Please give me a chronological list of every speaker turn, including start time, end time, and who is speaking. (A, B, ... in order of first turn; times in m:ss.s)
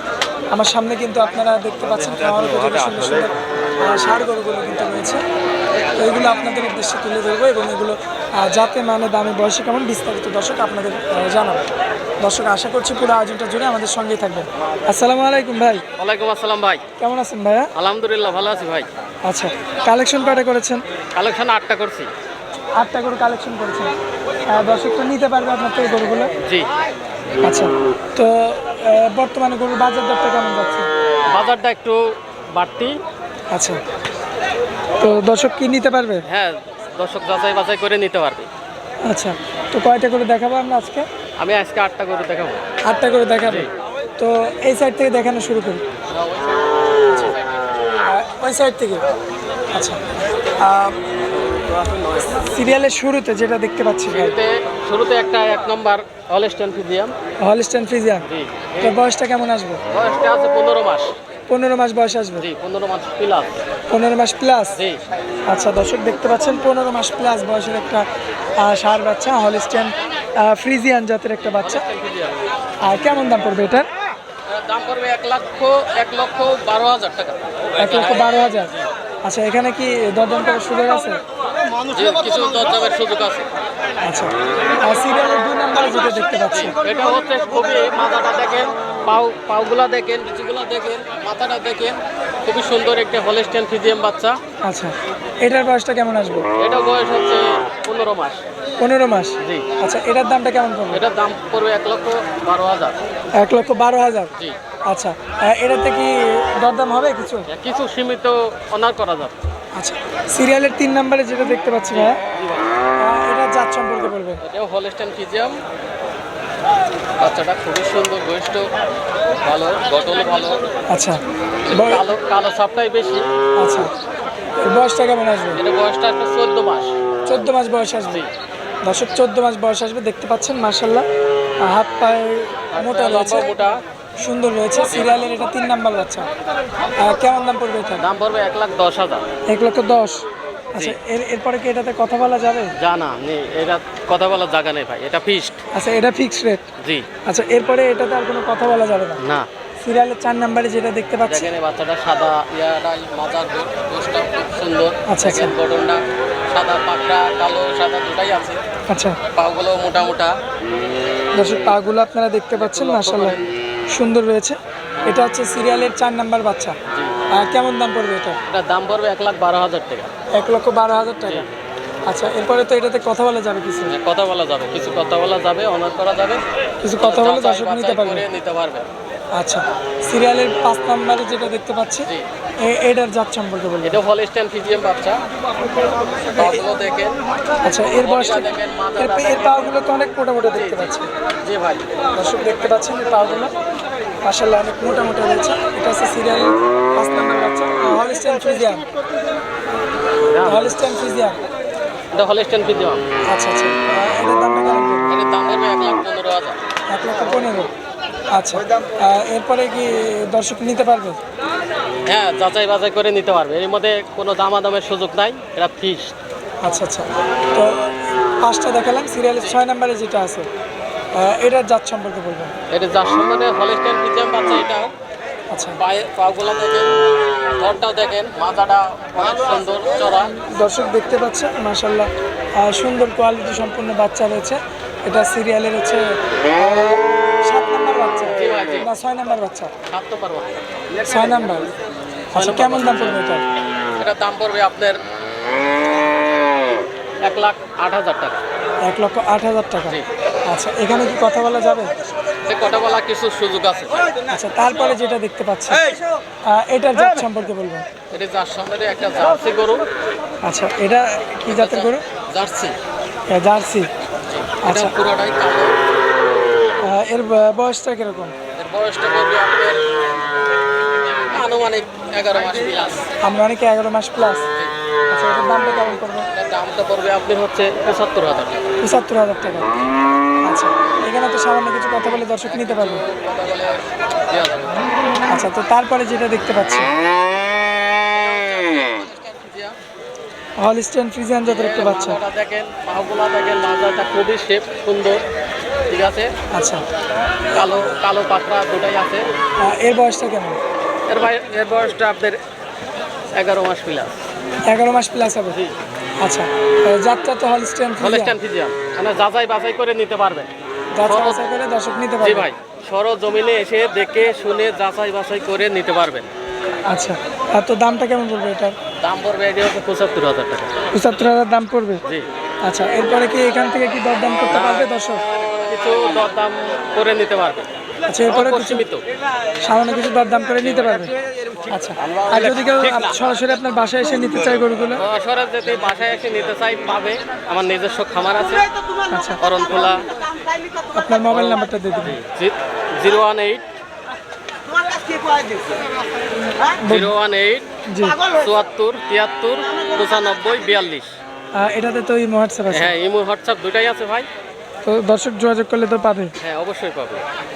0:00.5-0:05.2 A
0:06.0-0:11.6 A
0:12.2-0:15.8 A
0:16.0-0:16.8 B
0:17.0-0:17.7 A
0:17.7-0:18.9 B
0:19.2-0:20.8 A
0:21.1-0:22.1 B
0:22.8-0:23.9 A
0:24.5-0:26.3 A
0:26.4-0:26.7 B
0:27.4-0:30.9 A
0:31.3-0:32.0 B
0:32.5-0:32.9 B
0:33.5-0:33.8 A
0:35.0-0:36.2 A
0:36.2-0:38.5 B
0:39.0-0:41.0 A
0:41.4-0:42.6 B
0:42.9-0:43.7 A
0:44.2-0:45.8 A
0:46.1-0:46.7 B
0:48.0-0:49.0 A
0:49.7-0:50.0 A
0:50.6-0:51.0 A
0:51.5-0:52.4 B
0:52.3-0:54.4 A
0:54.1-0:57.1 B
0:57.4-0:58.2 A
0:58.2-0:59.0 B
0:58.8-0:59.8 A
0:59.9-1:01.1 B
1:01.5-1:02.5 A
1:02.4-1:03.6 B
1:03.9-1:04.8 A
1:04.7-1:05.0 B
1:05.5-1:08.0 A
1:08.6-1:11.8 A
1:11.5-1:12.5 B
1:12.8-1:13.9 A
1:14.5-1:18.8 B
1:17.8-1:18.7 A
1:19.2-1:21.2 A
1:21.9-1:23.5 B
1:24.0-1:26.7 A
1:26.5-1:34.4 B
1:34.6-1:36.5 A
1:36.6-1:38.4 B
1:38.8-1:41.0 A
1:39.4-1:39.7 B
1:40.9-1:43.0 B
1:43.4-1:44.3 A
1:44.9-1:47.5 A
1:47.5-1:49.3 B
1:49.8-1:52.2 A
1:51.9-1:52.6 B
1:53.0-1:54.4 A
1:54.4-1:55.6 B
1:57.2-1:58.7 B
1:59.4-2:00.6 B
2:00.9-2:01.2 A
2:01.7-2:03.2 B
2:01.7-2:02.0 A
2:03.6-2:03.9 A
2:04.6-2:05.6 A
2:05.5-2:06.9 B
2:07.2-2:08.2 A
2:08.8-2:11.0 A
2:11.6-2:13.6 A
2:12.7-2:13.8 B
2:14.2-2:16.3 A
2:14.9-2:15.2 B
2:17.0-2:18.0 A
2:18.0-2:19.2 B
2:19.5-2:22.7 A
2:22.8-2:25.6 B
2:25.7-2:26.6 A
2:26.8-2:27.1 B
2:27.2-2:29.2 A
2:29.2-2:29.5 B
2:29.8-2:31.5 A
2:31.2-2:38.6 B
2:35.1-2:35.5 A
2:38.9-2:39.2 A
2:39.3-2:40.3 B
2:41.3-2:43.4 A
2:42.6-2:43.4 B
2:43.9-2:46.8 A
2:46.9-2:47.1 B
2:47.4-2:48.4 A
2:48.5-2:50.1 B
2:50.3-2:51.4 A
2:52.1-2:53.9 A
2:53.9-2:56.4 B
2:56.8-2:58.2 A
2:57.0-2:58.9 B
2:59.3-3:02.1 A
3:02.6-3:04.0 A
3:03.8-3:05.2 B
3:06.4-3:07.1 B
3:07.6-3:11.1 A
3:08.0-3:09.7 B
3:10.5-3:10.9 B
3:11.4-3:11.9 B
3:12.1-3:13.5 A
3:14.2-3:18.9 A
3:20.3-3:20.9 B
3:20.4-3:21.4 A
3:22.1-3:23.0 B
3:23.3-3:25.1 A
3:25.0-3:26.6 B
3:26.9-3:27.7 A
3:28.3-3:31.2 A
3:32.1-3:36.2 B
3:36.6-3:40.5 A
3:41.1-3:42.5 A
3:42.7-3:44.9 B
3:45.5-3:45.8 A
3:45.8-3:46.9 B
3:47.6-3:50.3 B
3:50.5-3:59.7 A
3:58.3-3:58.9 B
3:59.9-4:00.6 B
4:01.0-4:01.7 A
4:02.3-4:03.2 B
4:02.3-4:03.4 A
4:04.0-4:05.0 B
4:07.2-4:08.4 B
4:08.8-4:11.9 A
4:12.4-4:14.1 B
4:14.3-4:15.9 A
4:16.5-4:17.8 A
4:18.1-4:19.9 B
4:20.4-4:22.0 A
4:21.5-4:22.8 B
4:23.3-4:23.9 A
4:24.2-4:25.7 B
4:24.6-4:24.9 A
4:26.8-4:28.3 A
4:28.6-4:29.9 B
4:31.0-4:33.1 B
4:33.2-4:34.4 A
4:35.1-4:36.3 A
4:36.3-4:38.7 B
4:38.8-4:39.7 A
4:40.4-4:43.0 A
4:42.4-4:44.8 B
4:45.3-4:46.9 A
4:48.0-4:49.8 B
4:50.6-4:52.2 A
4:51.4-4:55.2 B
4:55.9-4:56.3 B
4:56.5-4:56.8 A
4:57.5-4:59.2 B
4:59.6-5:00.6 A
5:01.1-5:02.4 B
5:03.3-5:04.2 B
5:04.7-5:05.6 A
5:06.2-5:08.3 A
5:08.0-5:10.5 B
5:10.9-5:12.5 A
5:11.0-5:11.5 B
5:12.2-5:16.3 B
5:16.9-5:18.7 A
5:19.0-5:20.7 B
5:20.9-5:22.0 A
5:22.6-5:25.2 A
5:25.5-5:27.7 B
5:28.1-5:28.8 A
5:28.2-5:29.0 B
5:29.6-5:31.1 A
5:31.7-5:35.0 A
5:35.0-5:38.7 B
5:39.1-5:39.4 A
5:39.4-5:40.1 B
5:40.9-5:42.2 A
5:41.3-5:43.6 B
5:46.8-5:47.1 A
5:46.8-5:47.7 B
5:47.9-5:48.2 A
5:48.3-5:51.1 B
5:51.6-5:52.9 A
5:52.7-5:54.3 B
5:54.8-5:56.3 A
5:56.4-5:57.2 B